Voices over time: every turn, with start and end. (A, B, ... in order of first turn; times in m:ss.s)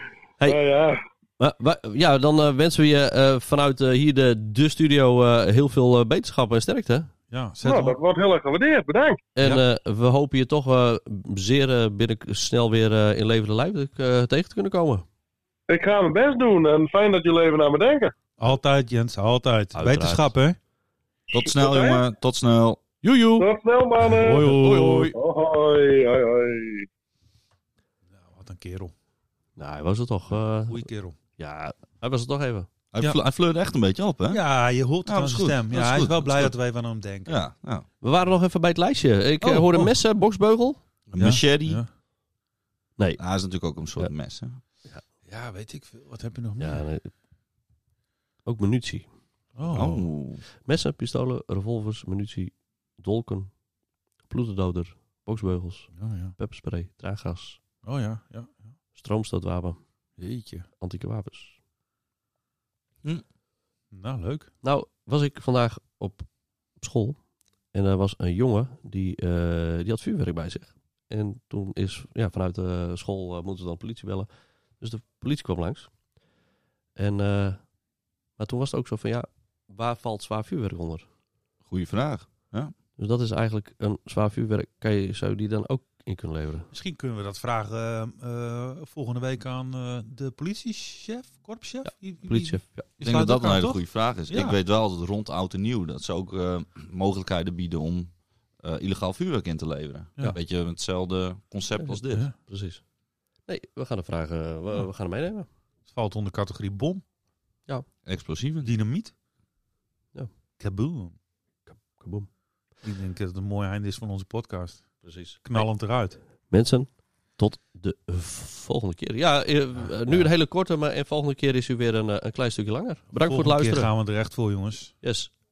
0:00.4-0:01.0 A
0:01.4-0:07.1 B
0:07.3-0:08.0 C
0:07.6-0:09.2 A
0:09.4-0:15.0 B
0:15.7-0:18.1 A
0:18.4-0:20.6 C
0:19.7-0:20.3 B
0:21.3-0:22.8 D
0:21.4-0:22.0 A
0:23.0-0:23.5 B
0:23.4-0:26.9 A
0:24.1-0:25.0 C
0:24.1-0:25.1 B
0:28.1-0:28.9 C
0:29.6-0:30.9 B
0:30.7-0:31.2 C
0:31.4-0:32.7 B
0:32.9-0:34.4 D
0:34.3-0:37.4 C
0:35.0-0:36.5 D
0:37.2-0:37.8 D
0:38.0-0:40.8 B
0:39.4-0:39.9 C
0:41.1-0:41.8 D
0:41.2-0:41.9 C
0:43.2-0:44.6 D
0:45.3-0:46.8 C
0:46.6-0:47.1 B
0:48.4-0:49.1 B
0:49.6-0:50.0 C
0:49.7-0:50.4 D
0:50.6-0:53.5 B
0:54.3-0:57.6 B
0:55.9-0:56.3 C
0:57.8-0:58.6 C
0:58.9-0:59.8 B
1:00.2-1:00.7 C
1:00.8-1:01.6 B
1:03.9-1:04.5 C
1:04.6-1:06.3 B
1:06.8-1:07.2 B
1:07.7-1:14.3 B
1:14.8-1:15.9 B
1:17.0-1:17.6 B
1:18.4-1:21.0 B
1:21.6-1:22.7 D
1:23.0-1:26.7 B
1:26.7-1:34.6 C
1:31.8-1:32.9 B
1:33.0-1:42.3 D
1:41.8-1:42.8 B
1:43.5-1:45.5 B
1:45.9-1:47.0 C
1:48.0-1:48.7 D
1:48.6-1:49.1 C
1:50.6-1:51.2 C
1:51.7-1:52.3 B
1:52.8-1:56.2 C
1:55.0-1:55.6 B
1:56.5-2:03.9 B
1:59.8-2:00.3 C
2:03.1-2:04.9 C
2:05.0-2:05.3 B